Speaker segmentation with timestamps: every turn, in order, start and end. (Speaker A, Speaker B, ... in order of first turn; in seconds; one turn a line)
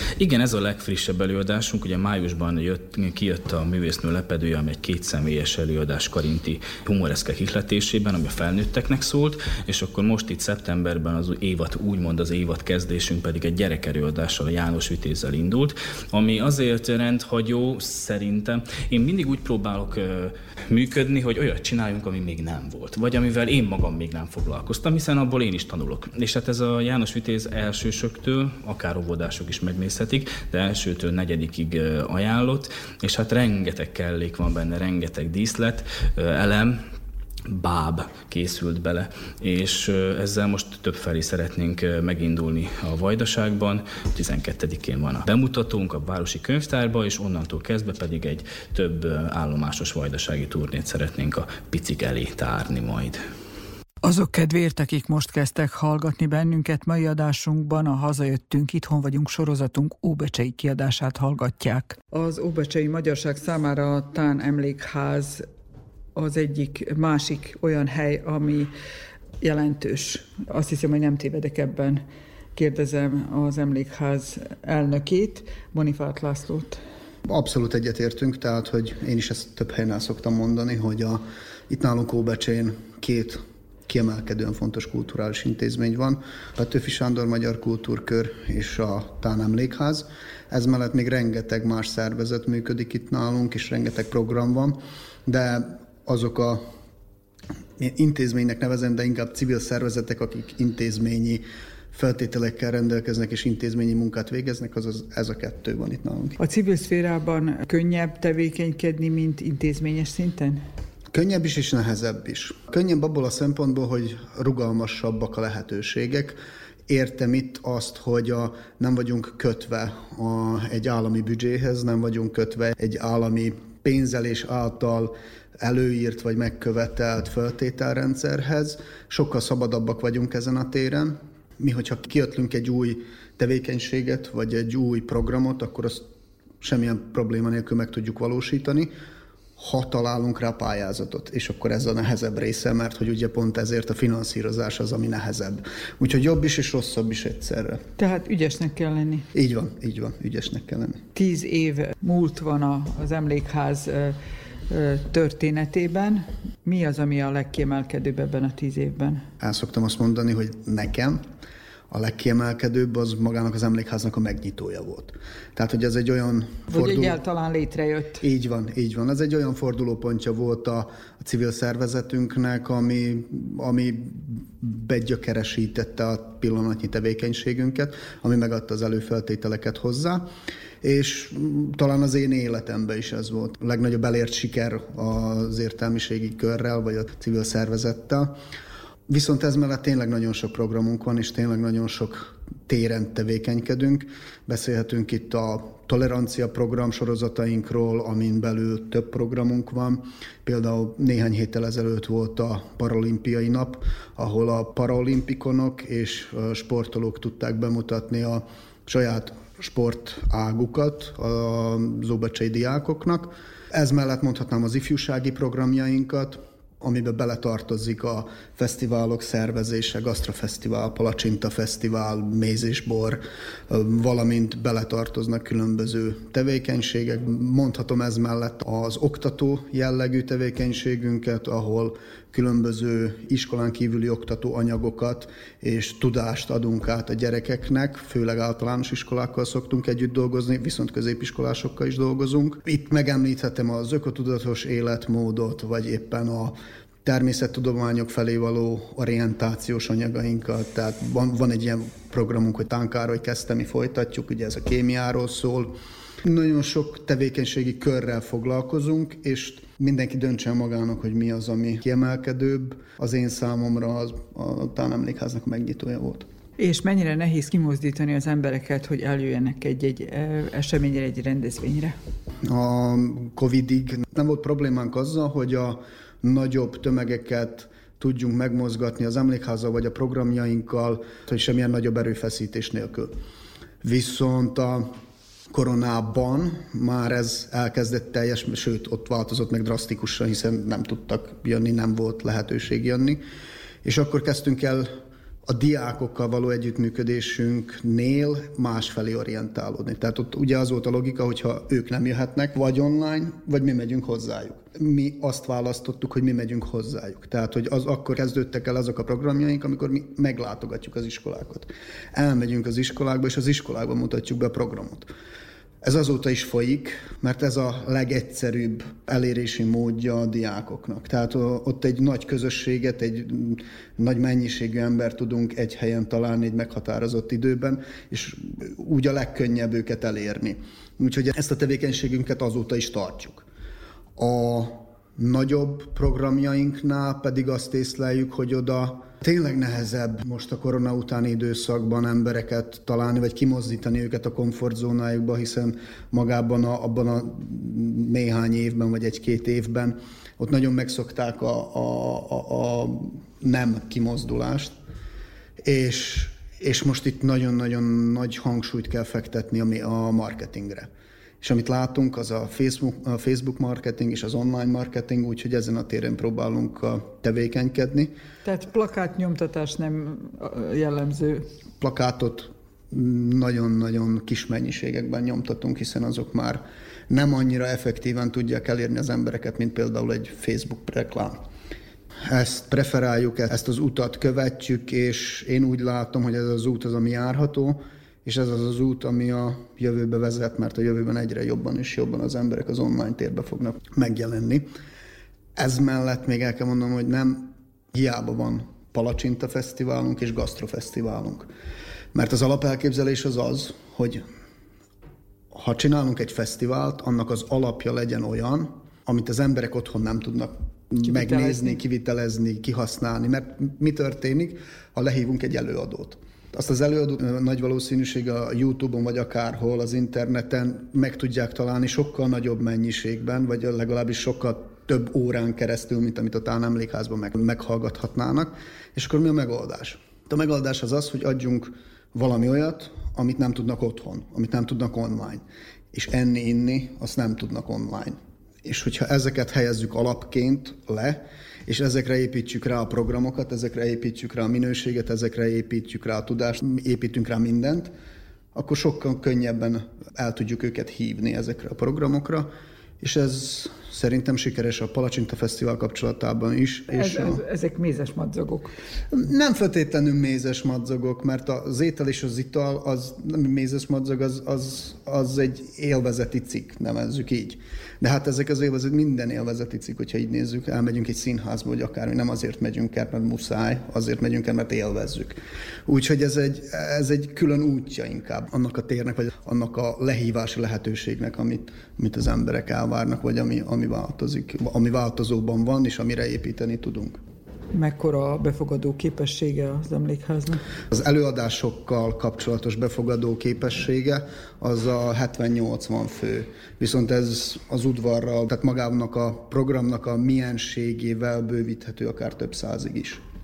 Speaker A: 0.2-36.8
Speaker A: 37.5-53.2
Speaker B: 54.0-65.4
Speaker B: 66.1-68.7
Speaker B: 69.4-72.0
Speaker B: 72.5-76.8
Speaker C: 77.3-96.6
Speaker C: 97.8-106.4
Speaker B: 106.4-110.6
Speaker C: 111.1-116.4
Speaker C: 116.9-136.1
Speaker C: 136.6-138.9
Speaker C: 139.6-147.8
Speaker B: 148.0-149.2
Speaker C: 149.3-151.0
Speaker B: 151.1-154.2
Speaker B: 154.7-159.2
Speaker C: 159.4-161.2
Speaker C: 161.9-167.2
Speaker B: 166.7-168.2
Speaker C: 168.2-180.3
Speaker C: 180.8-188.3
Speaker C: 189.1-266.3
Speaker B: 266.6-271.9
Speaker C: 272.4-283.1
Speaker C: 283.8-284.9
Speaker C: 285.5-293.2
Speaker C: 293.8-294.9
Speaker C: 295.4-315.1
Speaker C: 315.8-333.4
Speaker C: 334.1-354.8
Speaker C: 355.6-360.9
Speaker C: 361.4-368.1
Speaker B: 368.4-371.4
Speaker C: 371.8-381.4
Speaker C: 382.3-394.7
Speaker C: 395.6-401.5
Speaker C: 402.1-404.2
Speaker C: 405.5-447.9
Speaker B: 411.0-411.8
Speaker C: 448.5-452.5
Speaker C: 453.0-457.4
Speaker B: 456.9-458.7
Speaker C: 459.1-487.2
Speaker B: 487.7-490.6
Speaker C: 490.9-503.2